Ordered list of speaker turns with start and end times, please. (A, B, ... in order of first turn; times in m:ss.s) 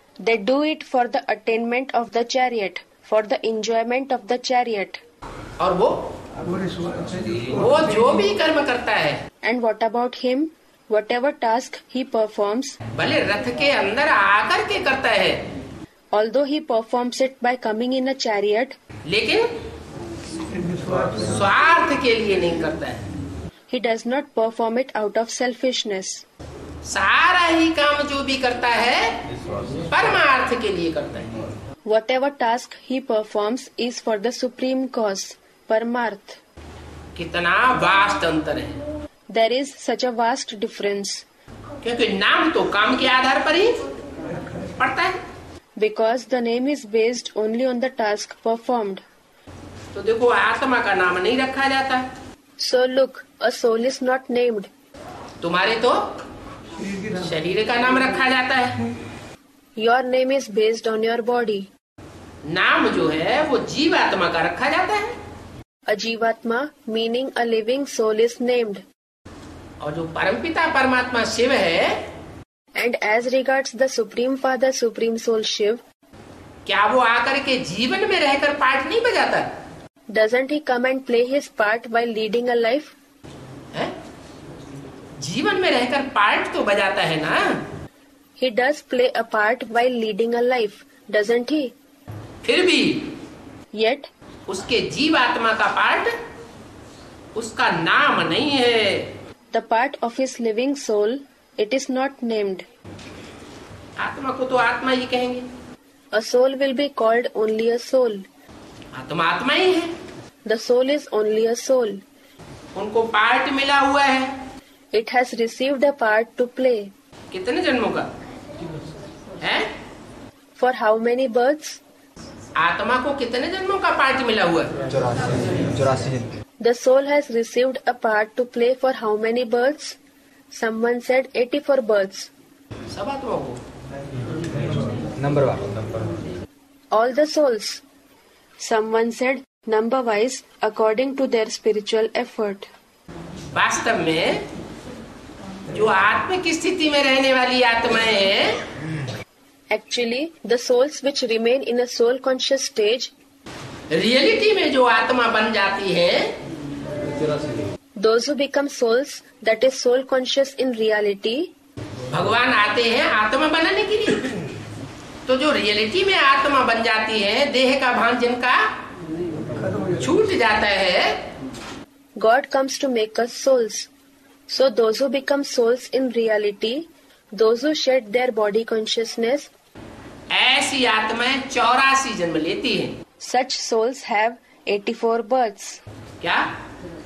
0:00.2-0:05.0 A
0:05.6-0:06.1 B
0:07.5-0:09.2 B
0:09.4-0:12.8 A
0:12.9-0:15.4 B
0:16.1-0:18.8 A
0:19.0-0:19.5 B
0:21.2-0:23.0 B
0:23.7-0:26.2 A
0:26.8-0:29.2 B
0:29.9-0:31.3 B
0:31.8-0:36.4 A
0:37.1-0:38.8 B
0:39.3-0:41.2 A
0:41.8-0:43.8 B
0:44.8-0:45.2 B
0:45.8-0:49.0 A
0:49.9-0:52.1 B
0:52.6-0:54.7 A
0:55.4-0:56.1 B
0:57.1-0:58.8 B
0:59.8-1:01.7 A
1:02.4-1:05.2 B
1:05.9-1:08.8 A
1:09.8-1:12.0 B
1:12.8-1:15.8 A
1:16.6-1:19.5 B
1:20.1-1:22.9 A
1:25.2-1:27.6 B
1:28.4-1:31.7 A
1:32.4-1:33.1 B
1:33.7-1:34.1 A
1:34.5-1:36.2 B
1:37.3-1:39.1 B
1:39.5-1:42.6 A
1:44.0-1:45.5 B
1:46.1-1:48.2 A
1:48.9-1:49.9 B
1:50.4-1:52.0 A
1:52.7-1:54.4 B
1:54.9-1:56.9 A
1:57.3-1:58.1 B
1:59.4-1:59.7 B
2:00.6-2:01.8 A
2:02.6-2:04.7 B
2:04.9-2:06.3 C
2:06.6-2:10.0 A
2:10.5-2:12.3 A
2:12.9-2:13.6 B
2:15.2-2:16.2 C
2:16.9-2:17.8 A
2:18.6-2:22.7 A
2:23.5-2:24.5 B
2:25.7-2:28.6 B
2:29.7-2:33.1 A
2:33.9-2:36.4 B
2:38.0-2:41.5 A
2:42.1-2:44.4 B
2:45.2-2:48.7 B
2:50.0-2:51.2 B
2:52.2-2:53.9 A
2:54.5-2:59.5 A
3:00.3-3:03.0 B
3:03.2-3:05.8 A
3:06.2-3:06.5 B